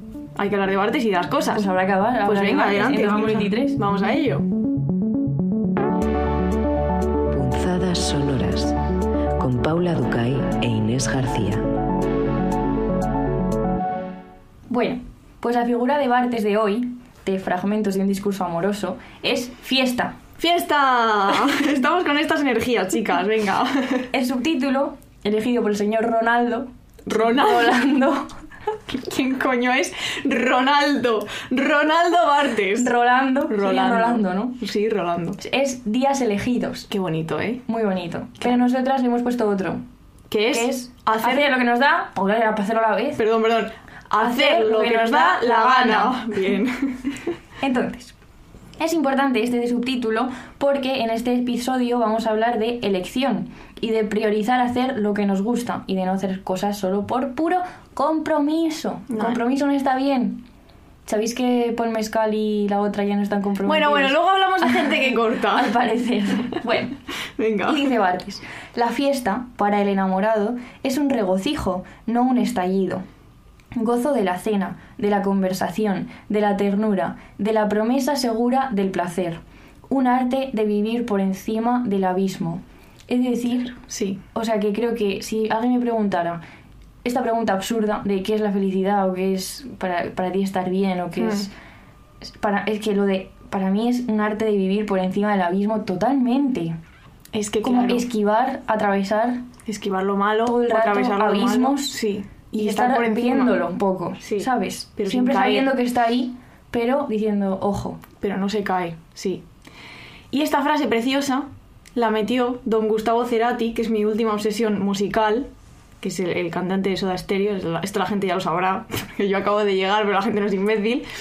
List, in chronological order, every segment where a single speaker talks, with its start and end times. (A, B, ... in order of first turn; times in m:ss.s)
0:00.4-0:01.7 A
0:01.5-0:03.8 B
0:02.2-0:04.5 A
0:07.3-0:08.8 C
0:09.4-0:11.7 C
0:14.7-0:20.2 B
0:20.4-0:24.1 A
0:24.1-0:28.3 B
0:27.1-0:27.7 A
0:28.9-0:32.9 A
0:32.8-0:34.6 B
0:33.5-0:35.4 A
0:35.4-0:36.9 B
0:36.9-0:37.6 A
0:37.7-0:39.8 B
0:40.3-0:41.5 A
0:40.5-0:43.2 B
0:43.2-0:47.2 A
0:44.2-0:46.3 B
0:47.6-0:48.2 B
0:48.8-1:00.5 B
0:59.1-0:59.4 A
1:01.1-1:07.0 B
1:03.6-1:05.8 A
1:07.4-1:07.8 A
1:07.6-1:13.0 B
1:13.8-1:23.8 B
1:23.8-1:24.2 A
1:24.3-1:26.4 B
1:27.0-1:31.5 B
1:31.2-1:31.5 A
1:32.2-1:36.8 B
1:37.3-1:38.0 A
1:37.6-1:39.4 B
1:39.6-1:43.6 A
1:40.5-1:42.0 B
1:42.6-1:48.0 B
1:44.2-1:45.8 A
1:48.2-1:49.4 A
1:50.3-1:55.5 A
1:56.0-2:01.1 A